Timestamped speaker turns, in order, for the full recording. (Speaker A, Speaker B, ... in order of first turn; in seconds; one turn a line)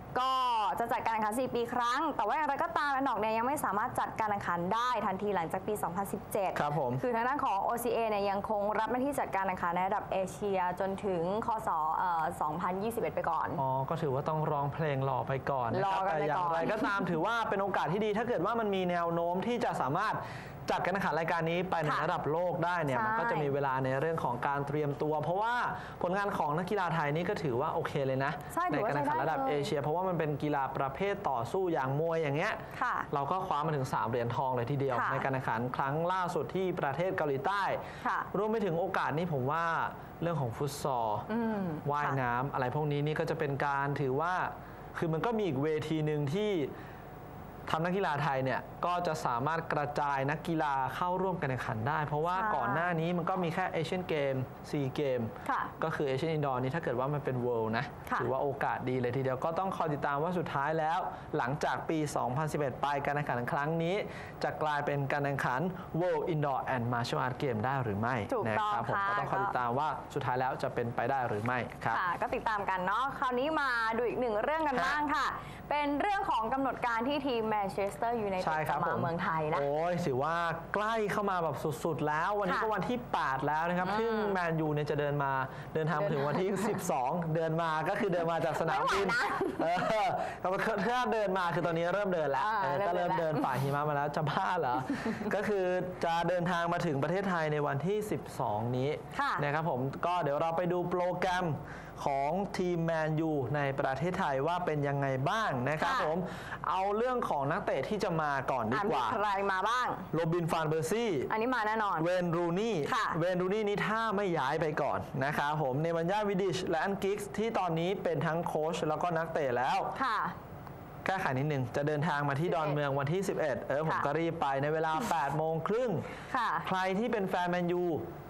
Speaker A: 0.1-13.6
Speaker B: 6.5-7.0
Speaker B: 13.6-32.6
Speaker A: 15.7-17.1
Speaker A: 22.9-23.5
Speaker A: 28.5-29.7
Speaker A: 32.8-33.1
Speaker B: 33.1-37.8
Speaker A: 34.9-35.2
Speaker A: 38.0-38.3
Speaker B: 38.3-41.3
Speaker A: 41.3-42.2
Speaker B: 41.8-46.7
Speaker B: 47.7-72.0
Speaker A: 52.3-53.0
Speaker A: 55.4-55.7
Speaker A: 68.3-69.5
Speaker A: 71.9-79.7
Speaker B: 74.7-75.0
Speaker B: 78.4-109.2
Speaker A: 83.8-84.4
Speaker A: 85.9-86.8
Speaker A: 88.5-89.7
Speaker A: 92.4-93.6
Speaker A: 99.1-99.4
Speaker A: 105.8-106.1
Speaker A: 108.7-110.0
Speaker B: 110.1-111.3
Speaker A: 111.3-112.1
Speaker B: 112.0-119.9
Speaker A: 112.8-113.2
Speaker A: 119.9-120.3
Speaker B: 121.0-126.1
Speaker A: 122.5-122.8
Speaker A: 126.3-126.7
Speaker B: 126.6-128.0